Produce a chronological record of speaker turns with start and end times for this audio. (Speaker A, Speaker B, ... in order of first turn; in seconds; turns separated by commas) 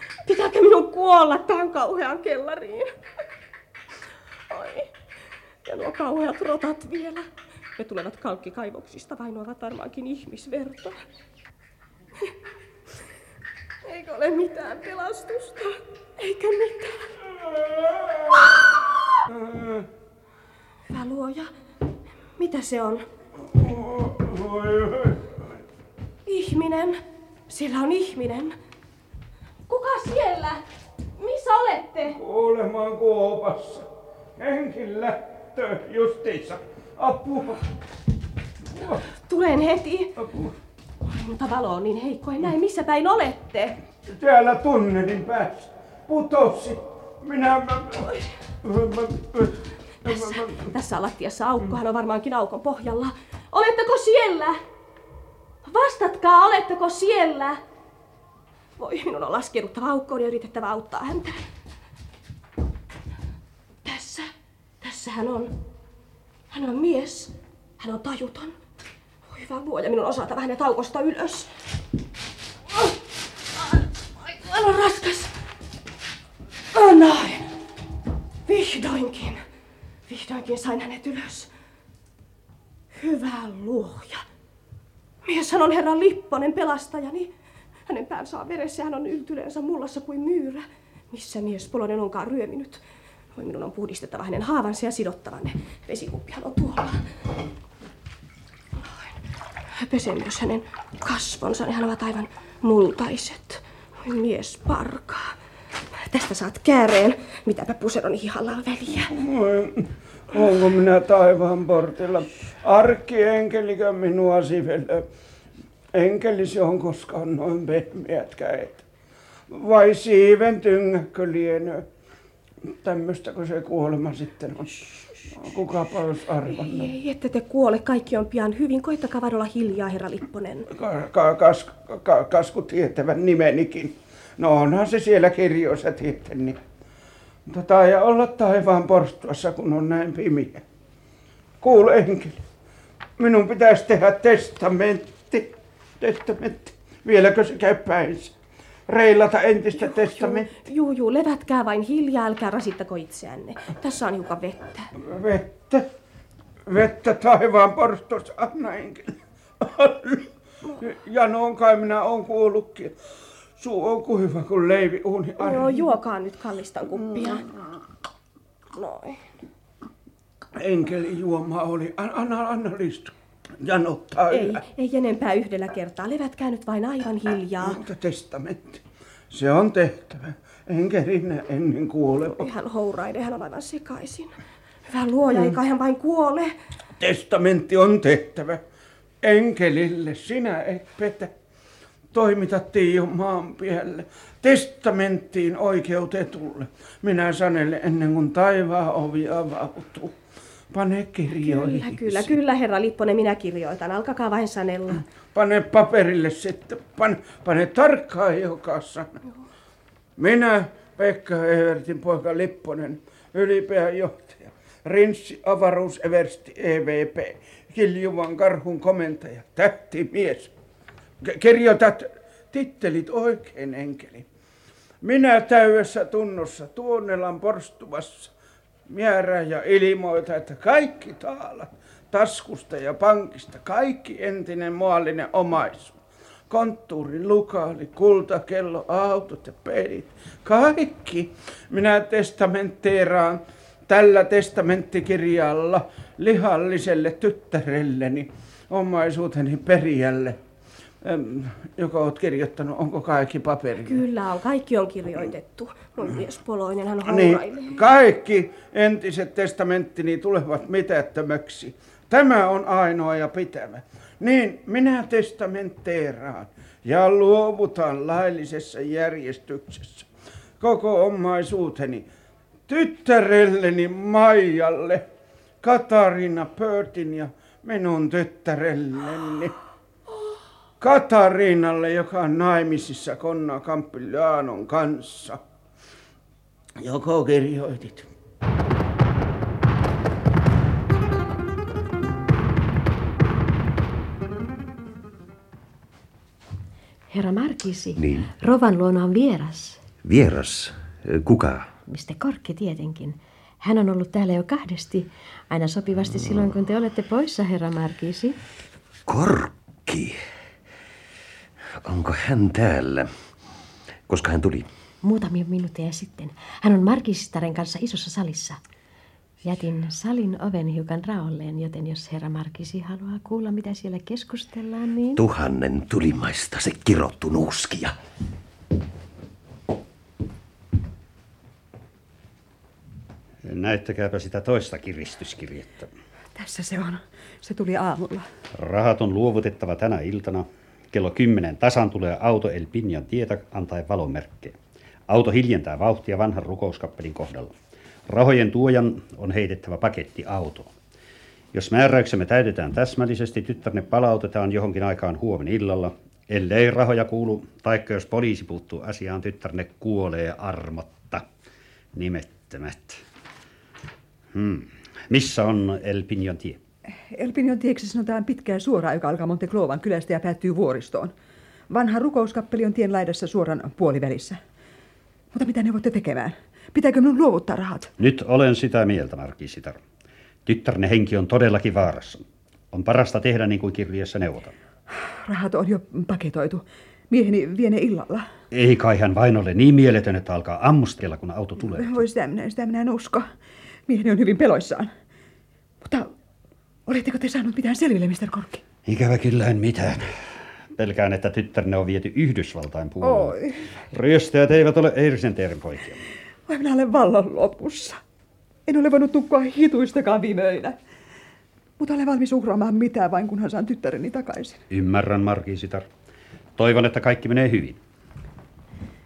Speaker A: 0.2-2.9, Speaker A: 4.5-4.9, Speaker A: 5.6-11.0, Speaker A: 13.8-17.2, Speaker B: 19.3-19.8, Speaker A: 20.9-21.5, Speaker A: 22.4-23.0, Speaker B: 23.5-25.3, Speaker A: 26.2-28.6, Speaker A: 29.7-30.6, Speaker A: 31.2-32.2, Speaker B: 32.1-33.9, Speaker B: 34.4-37.7, Speaker B: 38.7-39.0, Speaker A: 39.2-40.1, Speaker B: 40.1-40.5, Speaker A: 41.0-43.8, Speaker B: 44.0-50.7, Speaker A: 50.0-54.6, Speaker A: 55.6-57.6, Speaker A: 58.8-61.5, Speaker A: 63.8-65.6, Speaker A: 66.5-68.6, Speaker A: 69.3-71.5, Speaker A: 74.2-75.3, Speaker A: 76.7-77.6, Speaker A: 78.5-79.4, Speaker A: 80.1-81.5, Speaker A: 82.9-84.2, Speaker A: 85.2-87.3, Speaker A: 87.9-92.8, Speaker A: 93.3-97.1, Speaker A: 98.8-99.2, Speaker A: 99.7-105.4, Speaker A: 105.9-109.1, Speaker B: 109.1-115.0, Speaker B: 115.9-118.8, Speaker B: 119.5-121.8, Speaker B: 122.8-126.9, Speaker A: 126.5-130.7, Speaker B: 130.7-136.6, Speaker B: 137.5-140.6, Speaker B: 141.6-142.4, Speaker B: 143.2-148.3, Speaker B: 148.9-150.6, Speaker A: 149.8-154.9, Speaker B: 155.0-155.8, Speaker B: 156.7-160.3, Speaker B: 160.8-162.9, Speaker B: 163.6-166.0, Speaker A: 165.4-167.5, Speaker A: 168.7-169.2, Speaker B: 170.6-174.6, Speaker A: 174.3-177.8, Speaker B: 177.6-182.5, Speaker A: 182.2-186.6, Speaker B: 187.0-188.6, Speaker B: 189.2-191.3, Speaker B: 192.1-200.1, Speaker B: 200.7-202.3, Speaker A: 201.4-205.0, Speaker B: 205.3-209.2, Speaker B: 210.2-220.5, Speaker B: 221.2-224.2, Speaker B: 225.0-228.3, Speaker B: 228.9-235.9, Speaker B: 236.5-250.4, Speaker B: 251.0-254.0, Speaker A: 253.8-257.8, Speaker B: 257.0-270.1, Speaker B: 270.6-272.1, Speaker B: 272.7-275.0, Speaker B: 275.6-279.5, Speaker B: 280.8-285.4, Speaker B: 286.8-288.1, Speaker C: 297.1-299.8, Speaker C: 301.9-308.4, Speaker D: 309.1-310.0, Speaker D: 311.9-313.0, Speaker D: 314.1-314.6, Speaker C: 315.0-318.6, Speaker C: 319.4-325.2, Speaker D: 327.1-327.6, Speaker E: 333.4-335.9, Speaker F: 336.3-338.2, Speaker E: 338.5-344.6, Speaker E: 345.1-347.5, Speaker E: 348.1-350.7, Speaker E: 351.5-361.2, Speaker E: 361.9-363.0, Speaker E: 364.3-366.6, Speaker F: 367.1-371.1, Speaker F: 371.7-374.4, Speaker F: 375.3-377.9, Speaker E: 378.0-379.8, Speaker E: 380.4-384.5, Speaker F: 385.2-388.2, Speaker E: 388.5-392.0, Speaker F: 391.8-393.3, Speaker F: 393.9-394.9, Speaker F: 395.8-396.1, Speaker F: 396.9-398.6, Speaker E: 398.8-403.4, Speaker F: 403.0-403.6, Speaker E: 403.9-406.0, Speaker F: 406.5-408.0, Speaker F: 408.7-410.8, Speaker F: 411.8-414.6, Speaker E: 414.7-415.9, Speaker E: 416.6-417.8